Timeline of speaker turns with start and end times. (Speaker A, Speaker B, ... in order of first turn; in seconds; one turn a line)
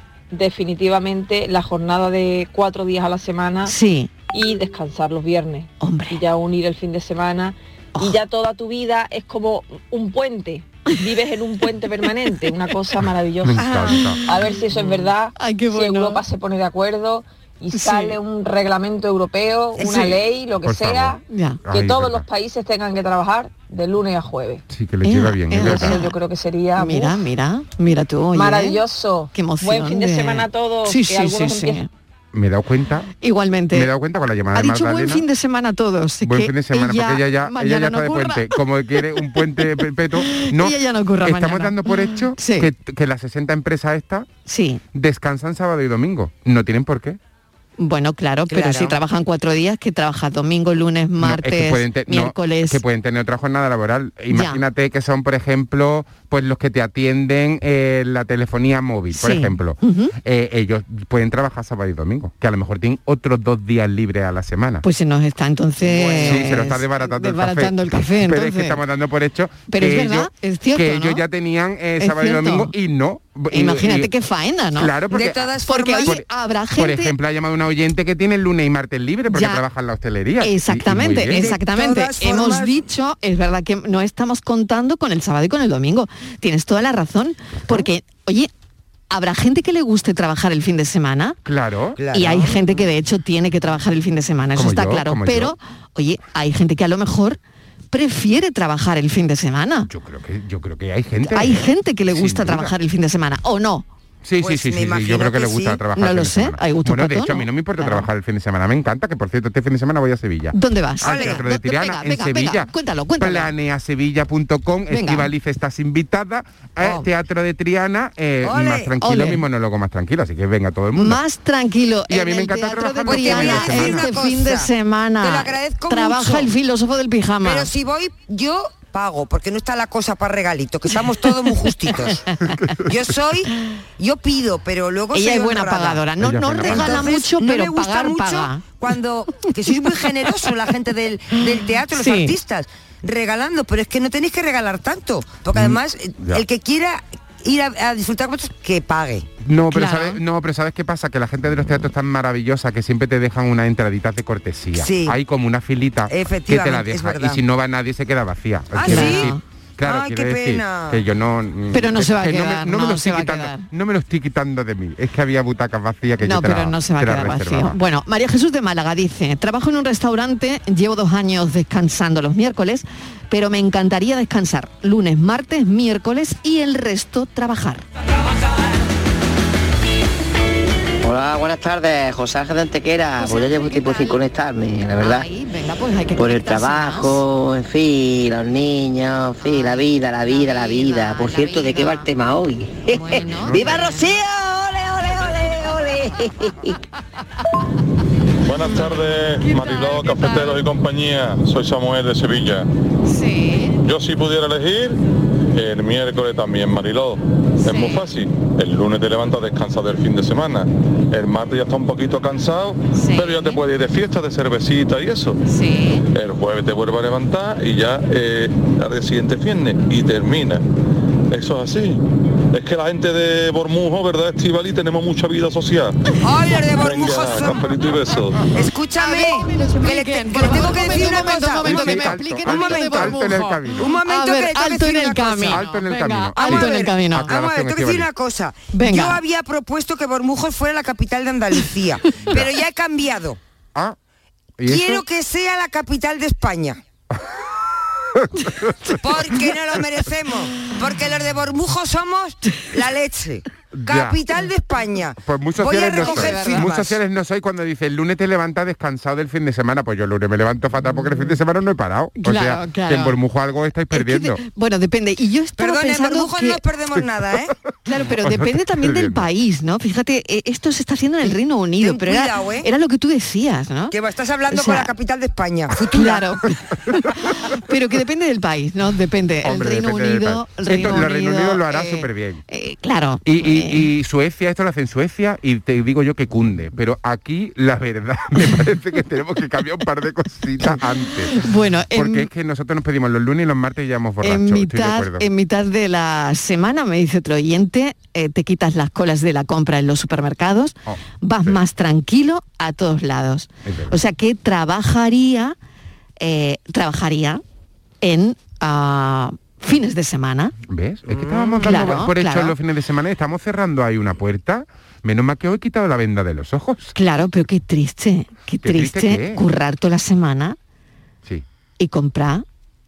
Speaker A: 0.3-3.7
Speaker B: 3.6-4.1
Speaker A: 4.3-13.7
Speaker B: 5.8-6.2
Speaker C: 13.5-14.2
Speaker B: 13.6-14.2
Speaker A: 14.3-24.6
Speaker B: 14.7-16.2
Speaker B: 17.7-18.2
Speaker D: 19.8-20.2
Speaker C: 20.6-22.2
Speaker B: 21.3-21.6
Speaker C: 24.7-26.0
Speaker B: 25.0-26.2
Speaker A: 25.5-27.2
Speaker B: 26.8-31.9
Speaker A: 28.3-31.8
Speaker C: 32.3-33.1
Speaker B: 33.2-33.9
Speaker C: 33.7-35.2
Speaker B: 34.5-38.6
Speaker C: 36.2-44.3
Speaker B: 40.2-42.7
Speaker B: 44.5-44.8
Speaker C: 44.9-47.2
Speaker B: 47.8-52.8
Speaker D: 48.5-49.0
Speaker C: 51.2-64.8
Speaker B: 54.3-54.6
Speaker B: 59.1-60.1
Speaker B: 64.8-68.8
Speaker C: 65.8-74.1
Speaker B: 69.7-71.2
Speaker B: 72.0-72.7
Speaker B: 73.5-75.0
Speaker C: 74.8-81.5
Speaker D: 75.1-76.1
Speaker B: 75.7-77.1
Speaker B: 79.3-79.6
Speaker B: 80.4-88.5
Speaker D: 81.3-82.8
Speaker B: 89.1-91.4
Speaker C: 91.5-92.0
Speaker D: 92.0-92.8
Speaker B: 92.1-97.4
Speaker C: 94.6-95.5
Speaker B: 97.9-99.9
Speaker C: 99.9-102.8
Speaker B: 101.3-103.8
Speaker C: 104.2-121.2
Speaker D: 104.4-105.8
Speaker B: 106.0-108.1
Speaker B: 110.5-113.5
Speaker D: 111.0-111.4
Speaker B: 114.9-115.3
Speaker D: 118.4-118.9
Speaker B: 119.0-119.4
Speaker B: 121.0-127.7
Speaker C: 122.1-124.1
Speaker D: 123.0-124.7
Speaker D: 125.2-126.5
Speaker D: 127.4-132.3
Speaker D: 132.9-136.0
Speaker B: 135.1-138.6
Speaker C: 136.2-137.1
Speaker D: 136.6-149.3
Speaker B: 141.9-142.3
Speaker C: 145.5-146.4
Speaker C: 149.4-167.8
Speaker B: 149.7-150.2
Speaker D: 154.8-155.2
Speaker D: 156.1-157.4
Speaker D: 158.8-159.3
Speaker B: 158.8-159.4
Speaker D: 159.8-161.0
Speaker B: 161.7-163.7
Speaker B: 166.2-177.8
Speaker E: 181.0-185.3
Speaker B: 183.2-184.2
Speaker B: 185.0-187.2
Speaker E: 186.2-196.7
Speaker B: 189.4-192.1
Speaker B: 192.9-194.2
Speaker F: 198.5-202.7
Speaker B: 198.6-200.6
Speaker B: 203.1-203.7
Speaker F: 203.8-205.0
Speaker F: 205.5-215.4
Speaker B: 207.6-208.1
Speaker B: 212.9-213.6
Speaker B: 215.5-216.1
Speaker F: 216.1-220.6
Speaker F: 221.3-222.0
Speaker F: 222.5-226.0
Speaker D: 226.2-227.7
Speaker F: 226.8-228.4
Speaker D: 228.5-233.2
Speaker B: 229.0-237.3
Speaker C: 230.9-233.9
Speaker D: 233.8-235.6
Speaker C: 235.4-238.1
Speaker D: 236.4-243.4
Speaker B: 238.7-239.2
Speaker C: 244.6-245.0
Speaker D: 244.7-246.8
Speaker C: 248.2-249.0
Speaker D: 249.0-256.9
Speaker C: 253.7-254.2
Speaker C: 255.2-264.4
Speaker B: 256.0-256.8
Speaker B: 260.9-261.4
Speaker B: 262.2-263.2
Speaker B: 263.9-266.6
Speaker D: 265.6-267.5
Speaker B: 267.9-273.9
Speaker C: 268.2-269.3
Speaker D: 271.8-272.7
Speaker D: 273.9-276.3
Speaker B: 274.5-274.9
Speaker B: 275.9-283.9
Speaker C: 279.4-282.4
Speaker C: 283.2-295.3
Speaker B: 291.3-292.3
Speaker B: 294.2-305.6
Speaker C: 300.9-301.6
Speaker C: 303.6-304.0
Speaker B: 306.2-307.4
Speaker B: 308.0-310.5
Speaker C: 310.7-316.9
Speaker D: 311.2-312.0
Speaker B: 311.6-312.6
Speaker B: 317.0-320.6
Speaker C: 318.6-319.4
Speaker B: 321.8-322.4